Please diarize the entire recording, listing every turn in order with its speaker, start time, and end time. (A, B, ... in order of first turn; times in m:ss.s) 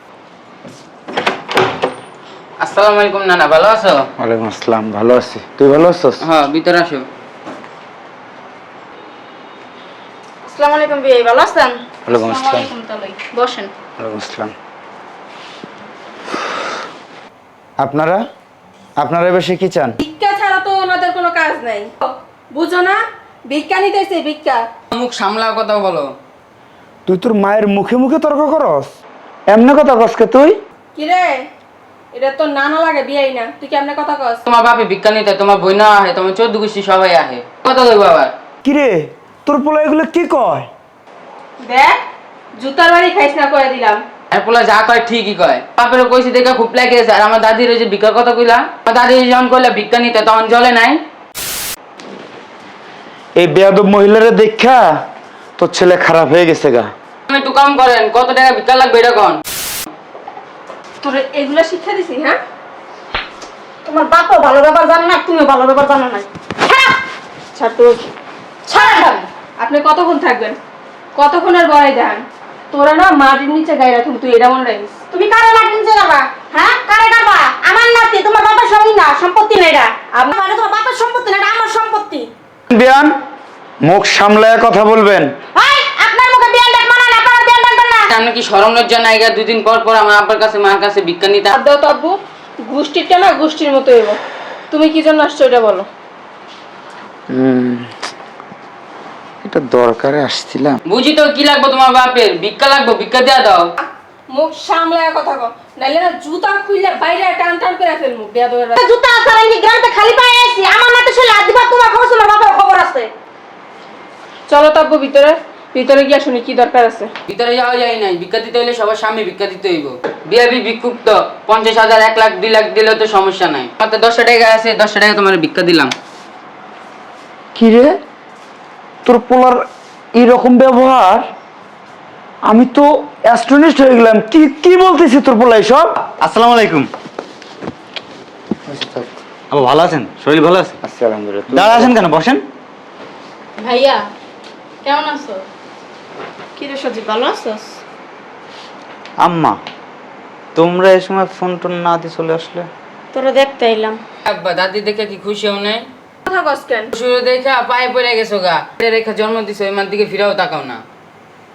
0:02.6-0:04.1 A
0:04.2-0:06.0 B
0:06.2-0:07.1 A
0:10.5-0:11.8 C
0:12.1-0:12.7 D
0:12.1-0:13.7 E
0:14.0-0:14.5 B
0:17.8-0:18.2 B
0:19.0-0:20.0 B
0:20.0-0:24.6 F
0:24.9-0:26.1 A
0:27.1-0:28.9 B
0:29.5-0:30.6 B
0:31.0-0:31.4 F
0:32.1-0:34.4 F
0:34.5-0:38.3 A
0:38.6-0:40.7 B
0:41.6-0:42.0 F
0:42.6-0:44.0 F
0:44.3-0:51.0 A
0:53.4-0:54.9 B
0:55.6-0:56.9 B
0:57.3-0:59.4 A
1:01.0-1:02.4 F
1:03.8-1:07.0 C
1:07.5-1:08.1 F
1:08.7-1:09.3 E
1:08.7-1:09.0 C
1:09.6-1:10.6 F
1:11.2-1:14.9 F
1:15.1-1:22.3 C
1:22.7-1:23.1 B
1:23.8-1:25.3 B
1:25.6-1:28.1 C
1:28.1-1:31.5 A
1:31.5-1:35.9 F
1:37.4-1:37.8 D
1:39.5-1:40.8 D
1:40.9-1:43.7 A
1:43.8-1:48.8 F
1:48.8-1:53.1 C
1:54.5-1:57.1 F
1:57.3-2:05.9 A
2:07.6-2:08.0 B
2:09.0-2:09.6 B
2:10.2-2:11.3 B
2:12.5-2:15.9 B
2:16.2-2:16.9 D
2:18.7-2:19.0 B
2:19.5-2:20.8 D
2:20.8-2:22.0 B
2:21.5-2:22.4 D
2:23.6-2:24.0 E
2:24.8-2:25.4 E
2:26.6-2:27.8 C
2:29.2-2:29.6 D
2:30.6-2:32.7 D
2:33.1-2:34.0 C
2:34.3-2:35.9 A
2:36.3-2:36.9 F
2:36.9-2:40.8 A